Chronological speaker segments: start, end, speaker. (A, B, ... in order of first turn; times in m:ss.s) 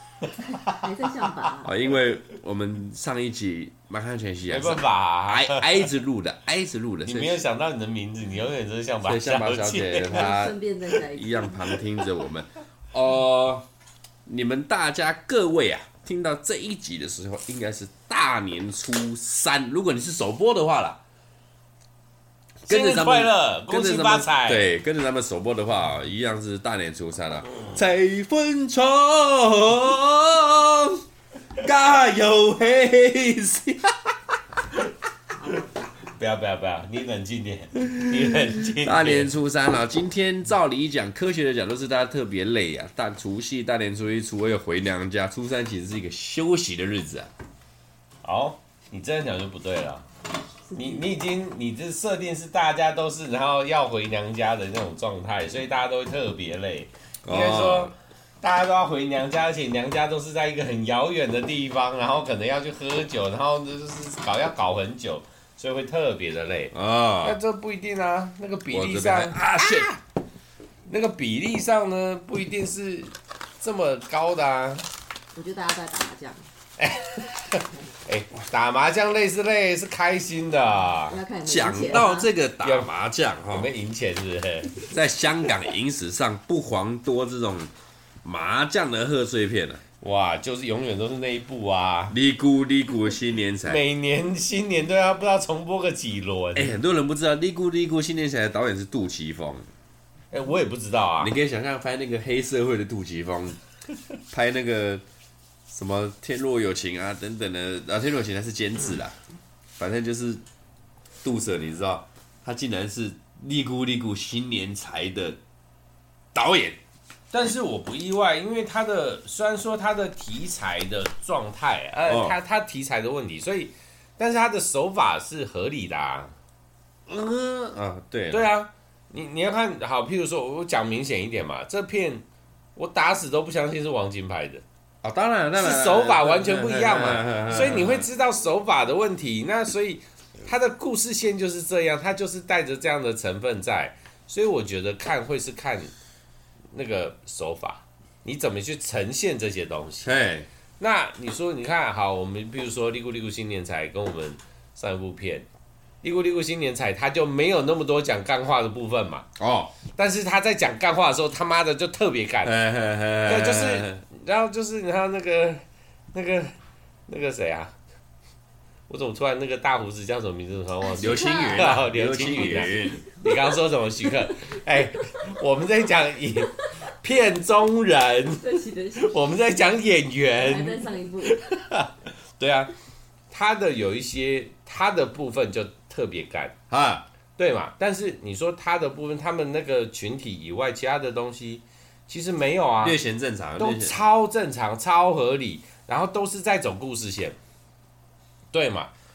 0:00.2-0:00.6 A
0:00.6-0:01.7 B
0:01.6-0:07.4 C
0:04.5-0:05.9 A
0:07.0-0:10.2 A
0:09.0-0:10.6 C
0:10.0-0:11.8 B
0:11.1-0:13.7 C
0:14.3-0:21.0 C
0:22.6-0:24.7 A
0:22.7-0:31.0 C
0:31.6-0:34.2 C
0:35.5-0:39.3 A
0:38.2-0:47.3 C
0:48.2-0:50.1 A
0:50.7-1:10.0 A
0:57.2-0:57.9 C
1:06.7-1:07.4 C
1:08.7-1:09.9 C
1:10.9-1:14.9 A
1:15.4-1:16.5 B
1:16.8-1:21.2 A
1:21.1-1:22.3 B
1:21.4-1:23.7 C
1:22.6-1:22.9 A
1:23.5-1:24.9 A
1:24.9-1:27.7 C
1:28.2-1:29.8 C
1:30.0-1:32.2 A
1:32.1-1:33.8 C
1:33.6-1:36.8 A
1:36.6-1:39.7 C
1:40.3-1:41.3 A
1:41.2-1:43.6 C
1:44.3-1:45.0 C
1:45.7-1:49.2 C
1:49.8-1:50.4 C
1:51.2-1:55.4 C
1:56.3-1:56.8 C
1:57.3-2:06.3 A
2:02.1-2:02.4 C
2:07.1-2:08.5 C
2:08.3-2:12.2 A
2:12.8-2:14.6 A
2:15.0-2:18.1 C
2:15.6-2:25.9 A
2:26.7-2:30.1 A
2:30.0-2:30.5 C
2:30.8-2:35.5 A
2:36.0-2:39.3 A
2:39.4-2:39.8 C
2:39.9-2:42.5 A
2:42.4-2:44.0 C
2:43.2-2:45.6 A
2:46.1-2:46.5 A
2:47.1-2:47.7 A
2:48.9-3:02.7 A
2:51.0-2:53.1 C
2:51.0-2:51.7 B
2:58.4-2:59.2 B
3:00.4-3:01.4 B
3:03.3-3:06.6 A
3:06.7-3:07.0 C
3:07.4-3:13.0 A
3:12.8-3:14.0 C
3:13.6-3:17.4 A
3:18.5-3:18.9 A